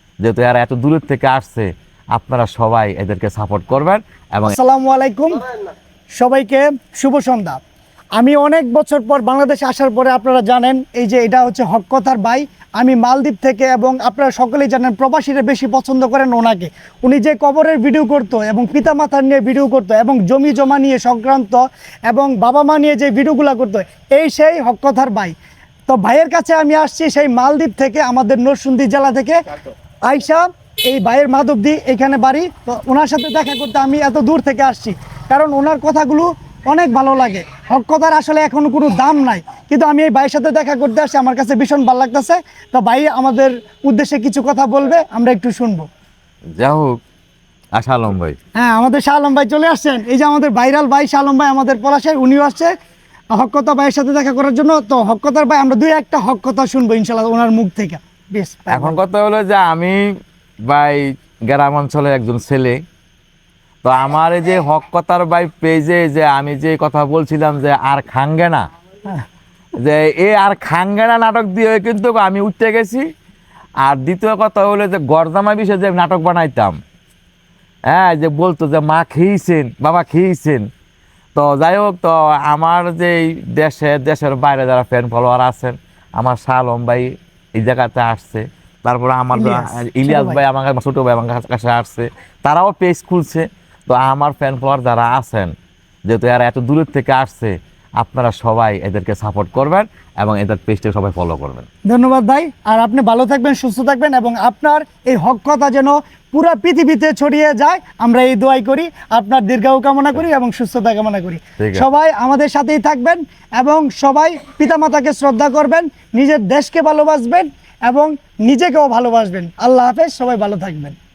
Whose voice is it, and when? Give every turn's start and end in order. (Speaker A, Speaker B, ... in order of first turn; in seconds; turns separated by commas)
Speaker A: 0.2-4.5, Speaker B: 4.5-5.4, Speaker B: 6.2-7.6, Speaker B: 8.2-25.4, Speaker B: 25.9-29.4, Speaker B: 30.0-45.9, Speaker A: 46.6-47.0, Speaker A: 47.8-48.4, Speaker B: 48.6-52.7, Speaker B: 53.3-59.0, Speaker A: 58.7-60.0, Speaker A: 60.7-62.8, Speaker A: 63.8-68.7, Speaker A: 69.8-73.1, Speaker A: 73.8-76.8, Speaker A: 77.9-80.7, Speaker A: 81.4-95.5, Speaker B: 89.3-90.4, Speaker A: 96.1-101.7, Speaker B: 101.9-121.0, Speaker A: 111.6-111.9